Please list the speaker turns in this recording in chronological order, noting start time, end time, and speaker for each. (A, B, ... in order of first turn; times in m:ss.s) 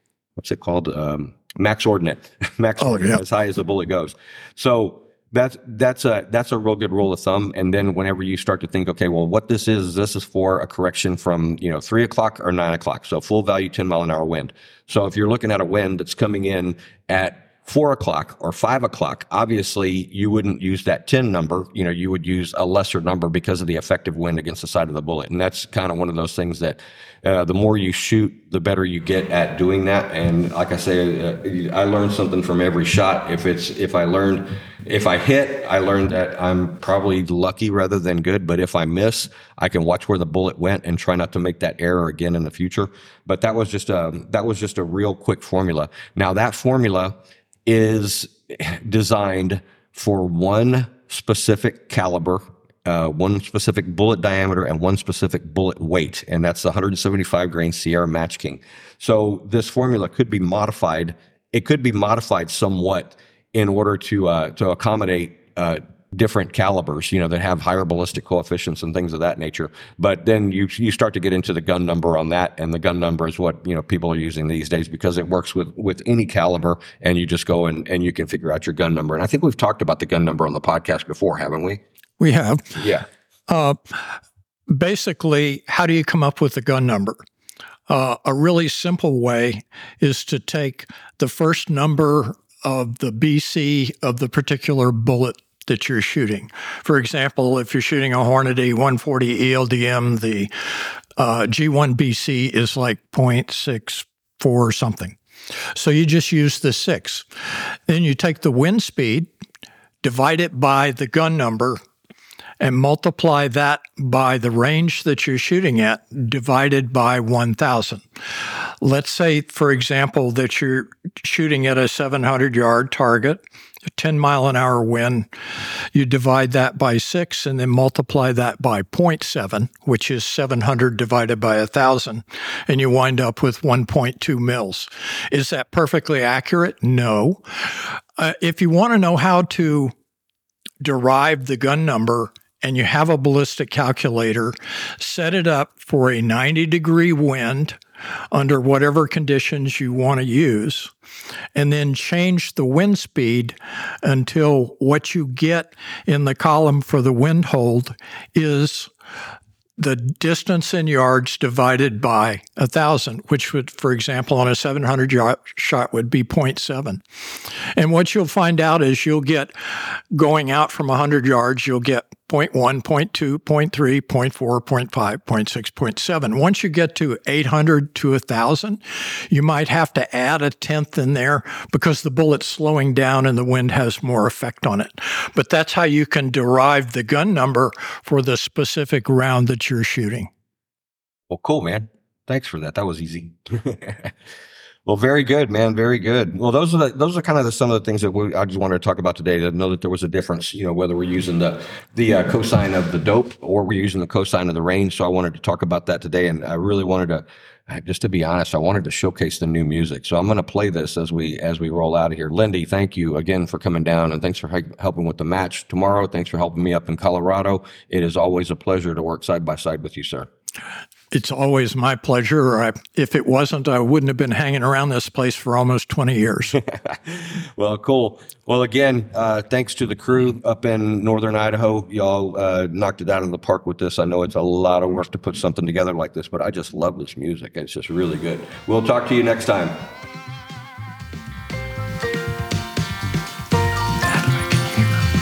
0:00.4-0:47.1 A
0:02.8-0:03.2 B
0:47.6-1:21.8 A
1:22.2-1:22.8 B
1:22.7-1:23.0 A
1:23.5-1:24.2 B
1:24.7-1:27.2 B
1:27.9-1:40.5 B
1:41.2-1:45.2 B
1:45.7-1:47.2 B
1:47.9-1:49.3 B
1:50.0-1:51.8 B
1:52.6-1:58.0 B
1:58.8-2:05.3 B
2:05.9-2:19.9 B
2:20.8-2:27.8 B
2:28.3-2:30.9 B
2:31.5-2:38.9 B
2:39.8-2:47.0 B
2:47.8-3:10.3 B
3:11.3-3:14.1 A
3:14.8-3:40.3 A
3:41.1-3:46.6 B
3:46.5-3:59.7 A
4:04.0-4:05.1 B